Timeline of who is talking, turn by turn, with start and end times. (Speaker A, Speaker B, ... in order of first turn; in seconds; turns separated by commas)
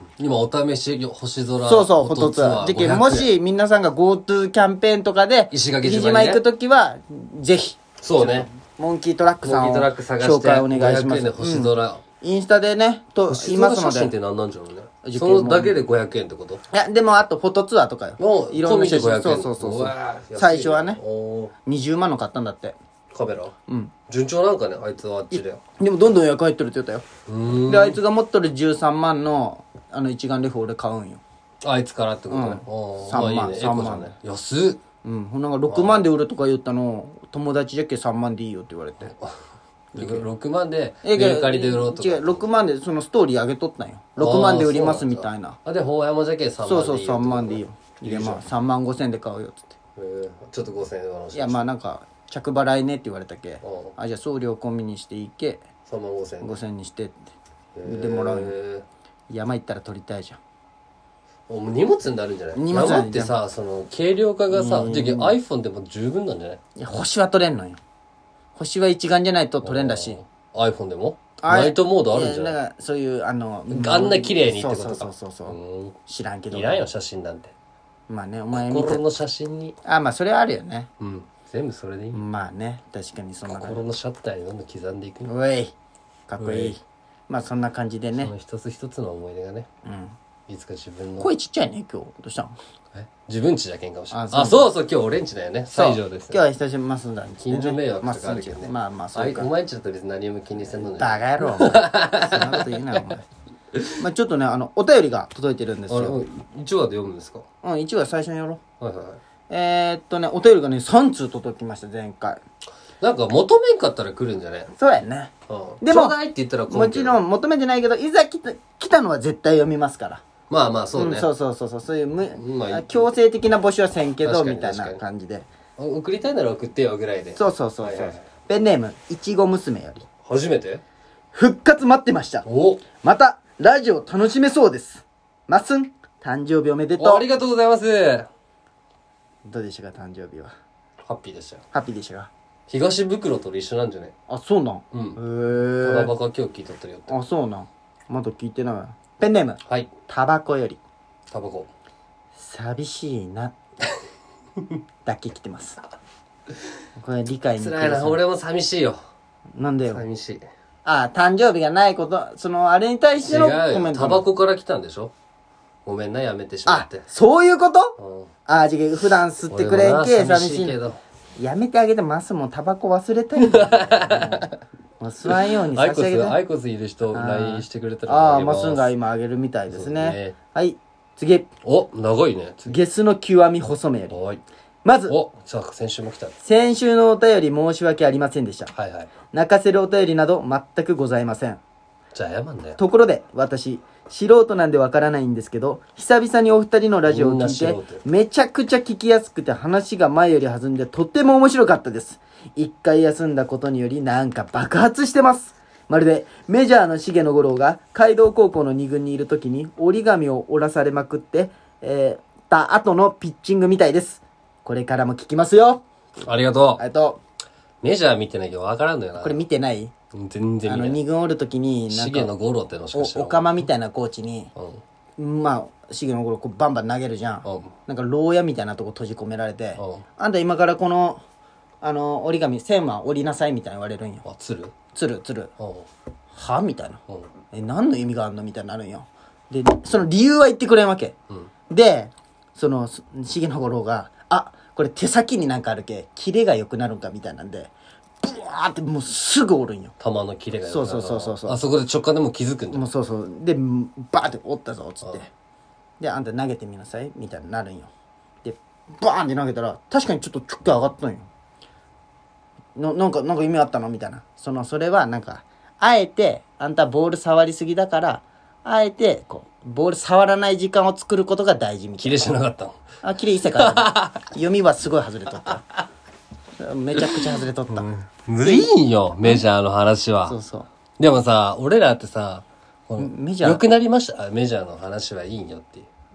Speaker A: 0.2-3.3, Speaker B: 1.6-14.1, Speaker A: 5.5-6.4, Speaker A: 8.0-8.5, Speaker A: 9.4-12.0, Speaker A: 13.3-16.6, Speaker B: 15.0-15.8, Speaker B: 16.7-21.0, Speaker A: 18.2-21.5, Speaker B: 21.7-22.8, Speaker A: 23.1-23.5, Speaker B: 23.7-23.9, Speaker A: 24.1-25.6, Speaker B: 25.3-31.2, Speaker A: 27.3-28.0, Speaker A: 31.6-34.8, Speaker B: 32.3-34.1, Speaker B: 35.0-39.1, Speaker A: 35.7-36.1, Speaker B: 39.9-40.2, Speaker A: 39.9-42.4, Speaker B: 41.0-45.6, Speaker A: 44.2-48.4, Speaker B: 46.6-49.7, Speaker A: 50.0-51.6, Speaker B: 51.3-55.6, Speaker A: 53.6-53.9, Speaker A: 55.9-56.5, Speaker B: 56.4-57.3, Speaker A: 57.8-58.9, Speaker B: 57.9-58.5, Speaker B: 59.3-60.4, Speaker A: 61.5-66.6, Speaker B: 62.5-63.4, Speaker B: 64.5-65.3, Speaker B: 66.8-67.8, Speaker B: 68.6-70.2, Speaker A: 69.6-72.6, Speaker B: 71.4-76.9, Speaker A: 73.7-76.0, Speaker A: 76.5-77.5, Speaker B: 78.1-79.1, Speaker A: 78.5-79.8, Speaker B: 79.8-80.9, Speaker A: 81.0-82.2, Speaker B: 82.1-83.8, Speaker A: 83.5-85.3, Speaker B: 85.3-85.7, Speaker B: 86.3-88.3, Speaker A: 86.4-86.8, Speaker A: 88.2-89.7, Speaker B: 89.8-90.2, Speaker A: 90.5-91.3, Speaker B: 91.2-92.5, Speaker A: 92.9-96.4, Speaker B: 94.1-94.7, Speaker B: 95.7-99.5, Speaker A: 97.4-103.0, Speaker B: 101.0-103.3, Speaker B: 104.0-106.2, Speaker A: 105.9-107.5, Speaker B: 107.6-108.6, Speaker A: 108.8-109.2, Speaker B: 109.5-112.4, Speaker A: 113.0-114.7, Speaker B: 114.7-116.2, Speaker A: 115.5-117.2, Speaker B: 116.7-120.2, Speaker A: 120.5-121.3, Speaker B: 121.0-125.5, Speaker A: 122.3-123.1, Speaker A: 124.2-125.0, Speaker A: 125.8-128.3, Speaker B: 127.4-130.1, Speaker A: 130.2-130.8, Speaker B: 131.3-137.2, Speaker A: 132.4-132.9, Speaker A: 137.0-138.3, Speaker B: 139.5-140.6, Speaker A: 141.1-141.6, Speaker B: 141.7-142.3, Speaker A: 142.7-144.1, Speaker B: 144.3-146.1, Speaker A: 144.9-145.2, Speaker A: 145.8-147.1, Speaker B: 147.1-150.8, Speaker A: 149.7-149.9, Speaker A: 151.3-151.7, Speaker B: 152.4-153.5, Speaker B: 155.1-155.8, Speaker B: 157.0-158.2, Speaker A: 157.6-159.0, Speaker B: 159.6-160.0, Speaker A: 159.9-160.5, Speaker B: 160.8-164.2, Speaker A: 163.2-165.1, Speaker A: 165.8-167.1, Speaker B: 166.7-170.8, Speaker A: 168.0-168.3, Speaker A: 169.5-171.0, Speaker B: 171.4-176.4, Speaker A: 173.4-174.6, Speaker A: 175.3-178.9, Speaker B: 177.1-181.5, Speaker A: 179.7-180.4, Speaker A: 181.6-182.8, Speaker B: 182.7-184.2, Speaker A: 184.1-184.4, Speaker B: 184.8-185.2, Speaker A: 185.1-186.4, Speaker B: 186.4-188.7, Speaker A: 188.7-189.1, Speaker B: 189.3-191.6, Speaker A: 192.1-192.8, Speaker B: 192.8-215.8, Speaker A: 197.1-198.0, Speaker A: 216.2-216.8, Speaker B: 216.8-217.2, Speaker A: 217.8-219.4, Speaker B: 219.2-219.9, Speaker A: 220.1-221.0, Speaker B: 220.7-222.3, Speaker A: 221.9-223.7, Speaker B: 222.9-224.5, Speaker A: 224.6-224.8, Speaker B: 225.2-231.2, Speaker A: 227.4-227.7, Speaker A: 229.8-230.0, Speaker B: 231.8-234.2, Speaker A: 234.2-234.8, Speaker B: 234.9-235.5, Speaker A: 235.6-235.9, Speaker B: 236.3-237.0, Speaker B: 237.5-241.1, Speaker B: 241.7-249.9, Speaker A: 250.0-252.9, Speaker B: 250.7-251.6, Speaker B: 252.7-255.3, Speaker B: 256.0-257.9, Speaker B: 258.4-261.3, Speaker B: 262.8-272.4, Speaker A: 272.0-272.8, Speaker B: 273.0-275.6, Speaker A: 273.6-274.2, Speaker B: 276.6-277.9, Speaker A: 277.0-280.4, Speaker B: 278.4-278.7, Speaker B: 280.3-280.7, Speaker A: 281.0-285.9, Speaker B: 283.0-283.6